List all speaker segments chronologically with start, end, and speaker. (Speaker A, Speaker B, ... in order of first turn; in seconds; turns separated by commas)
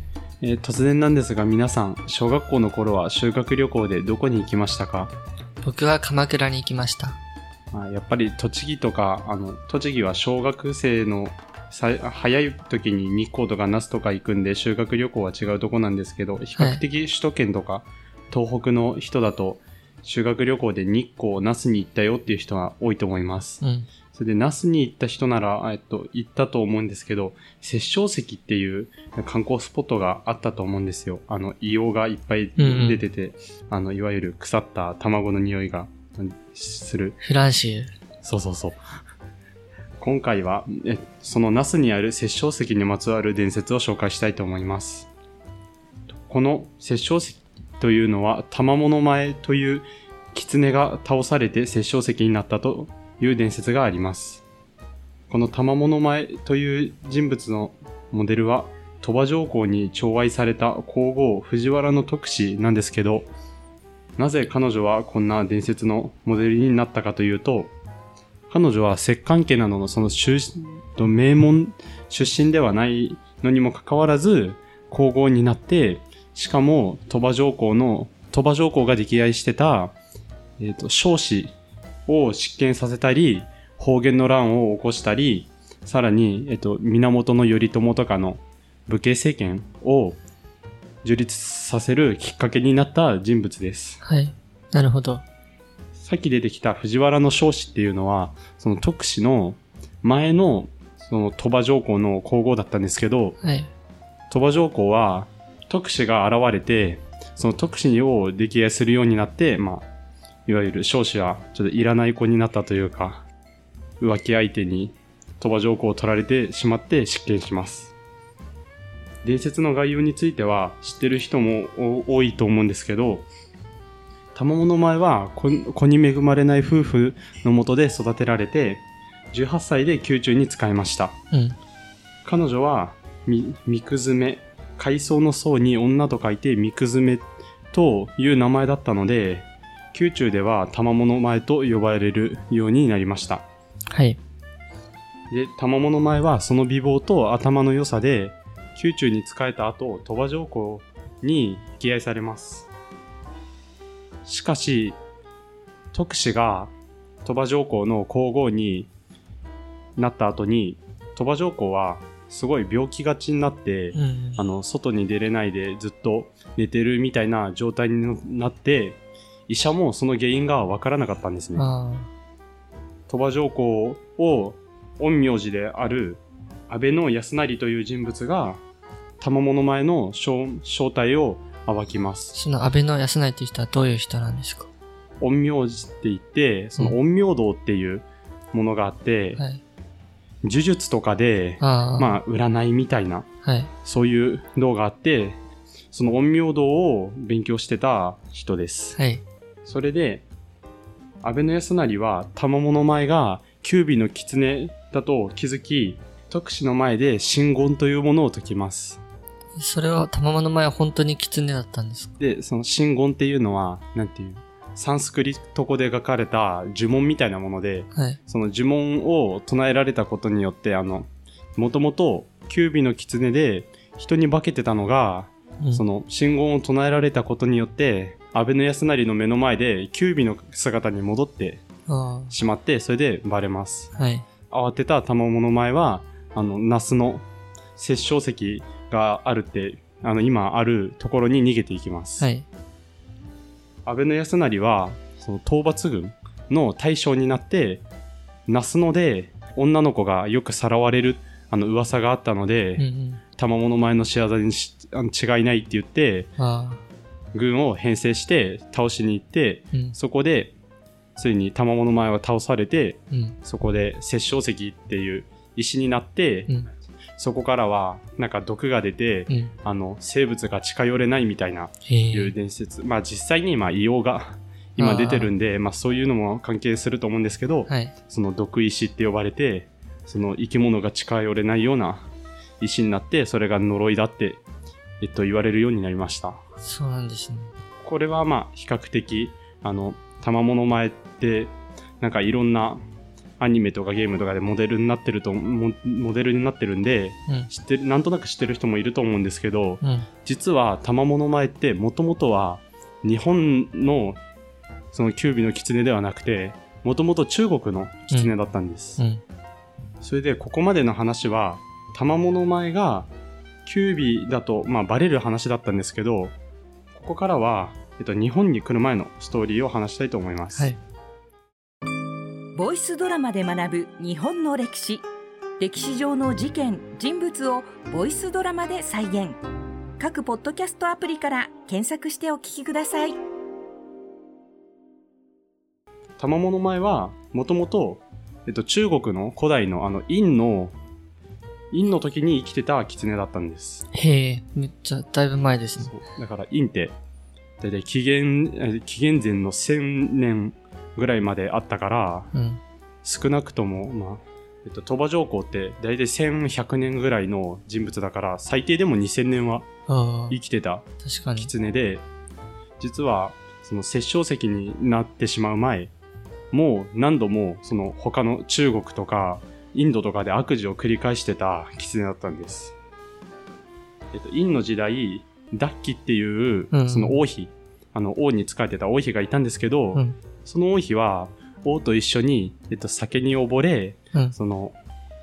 Speaker A: 0.4-5.1, Speaker B: 5.6-7.2, Speaker A: 7.7-23.6, Speaker B: 16.6-16.8, Speaker B: 23.6-23.9, Speaker A: 24.1-37.2, Speaker B: 32.6-33.0, Speaker B: 37.2-37.9, Speaker A: 38.2-38.8, Speaker A: 40.0-45.1, Speaker A: 46.2-54.5, Speaker A: 55.3-63.3, Speaker A: 64.2-67.7, Speaker A: 68.5-80.0, Speaker A: 80.6-81.5, Speaker A: 82.1-90.2, Speaker A: 91.0-94.0, Speaker B: 94.0-95.2, Speaker A: 96.0-103.4, Speaker B: 103.4-103.7, Speaker A: 104.3-109.9, Speaker A: 110.5-113.3, Speaker A: 114.0-117.9, Speaker A: 119.2-123.3, Speaker A: 124.3-131.2, Speaker B: 131.3-131.6, Speaker A: 132.2-143.4, Speaker B: 143.9-144.2, Speaker A: 145.3-152.7, Speaker A: 154.2-155.0, Speaker A: 155.9-156.7, Speaker A: 157.2-158.9, Speaker A: 160.0-171.7, Speaker B: 163.9-164.4, Speaker B: 171.6-172.1, Speaker A: 173.1-178.6, Speaker A: 179.2-182.3, Speaker B: 182.3-184.7, Speaker A: 185.2-189.4, Speaker A: 190.4-193.3, Speaker B: 191.6-192.2, Speaker B: 193.4-193.7, Speaker A: 193.8-195.4, Speaker A: 195.9-199.0, Speaker B: 199.0-199.2, Speaker A: 199.7-200.2, Speaker A: 201.2-209.0, Speaker B: 209.6-212.2, Speaker A: 212.2-231.6, Speaker B: 217.9-218.2, Speaker B: 231.9-232.3, Speaker A: 232.3-233.9, Speaker B: 234.0-234.2, Speaker A: 234.5-237.2, Speaker A: 237.8-242.3, Speaker B: 242.2-242.5, Speaker A: 243.9-247.8, Speaker A: 248.5-256.3, Speaker B: 252.8-253.2, Speaker B: 256.4-256.8, Speaker A: 257.3-260.5, Speaker A: 261.2-266.5, Speaker B: 263.1-263.4, Speaker A: 267.2-282.1, Speaker B: 271.9-272.3, Speaker B: 274.8-275.3, Speaker B: 277.7-277.9, Speaker A: 282.6-284.4, Speaker A: 285.0-286.4, Speaker B: 286.6-287.5, Speaker A: 287.8-292.8, Speaker A: 293.4-304.2, Speaker B: 299.8-300.1, Speaker A: 304.9-309.0, Speaker B: 309.0-309.2, Speaker A: 310.0-313.1, Speaker A: 313.6-316.4, Speaker A: 316.9-320.7, Speaker C: 322.6-325.1, Speaker C: 325.6-329.4, Speaker C: 330.0-333.2, Speaker A: 336.2-340.8, Speaker A: 341.7-343.9, Speaker B: 343.9-345.9, Speaker A: 345.8-346.9, Speaker A: 347.6-352.3, Speaker B: 352.3-352.6, Speaker A: 353.0-359.7, Speaker B: 359.9-360.4, Speaker A: 360.3-360.9, Speaker B: 361.0-361.5, Speaker A: 361.4-362.1, Speaker A: 362.8-365.9, Speaker A: 366.5-372.8, Speaker A: 374.1-384.8, Speaker B: 376.7-377.2